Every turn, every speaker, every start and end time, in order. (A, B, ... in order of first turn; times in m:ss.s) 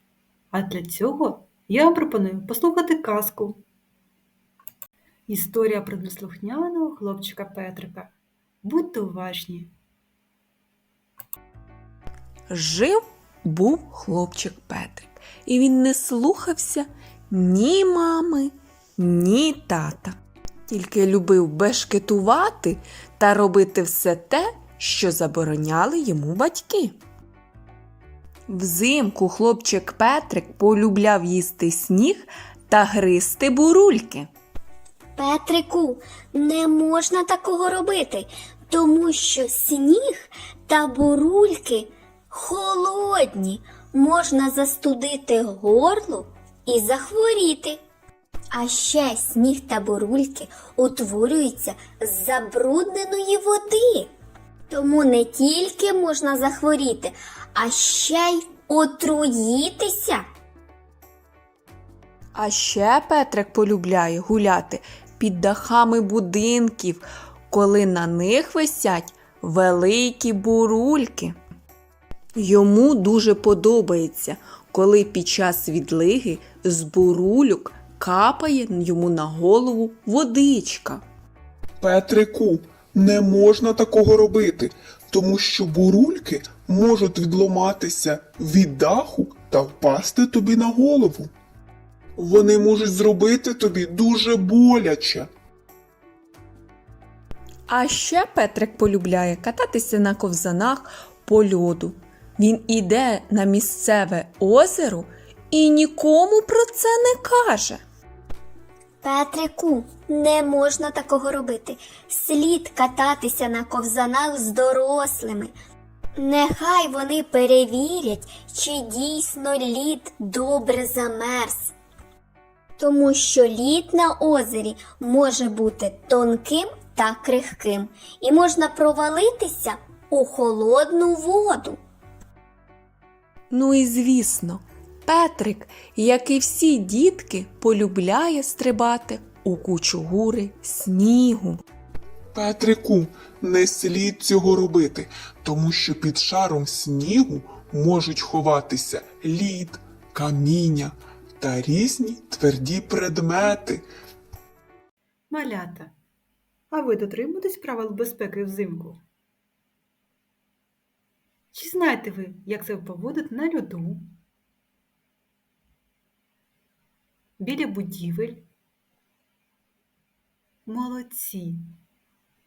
0:00.5-0:03.6 A
0:05.3-0:09.7 A
0:12.5-0:20.2 B
0:20.7-0:27.0 B
0:28.5-0:34.3 B
0:35.2-0:47.8 C
0:48.5-0:54.1 C
0:54.7-1:00.2 C
1:02.4-1:11.4 B
1:12.4-1:21.0 B
1:21.8-1:31.3 D
1:32.2-1:35.3 D
1:37.7-1:47.8 B
1:49.0-1:55.5 C
1:56.2-2:01.7 C
2:02.8-2:11.8 C
2:13.5-2:21.6 B
2:22.3-2:33.9 D
2:35.3-2:35.9 A
2:36.7-2:39.0 A
2:41.5-2:44.1 A
2:47.4-2:48.4 A
2:50.7-2:51.7 A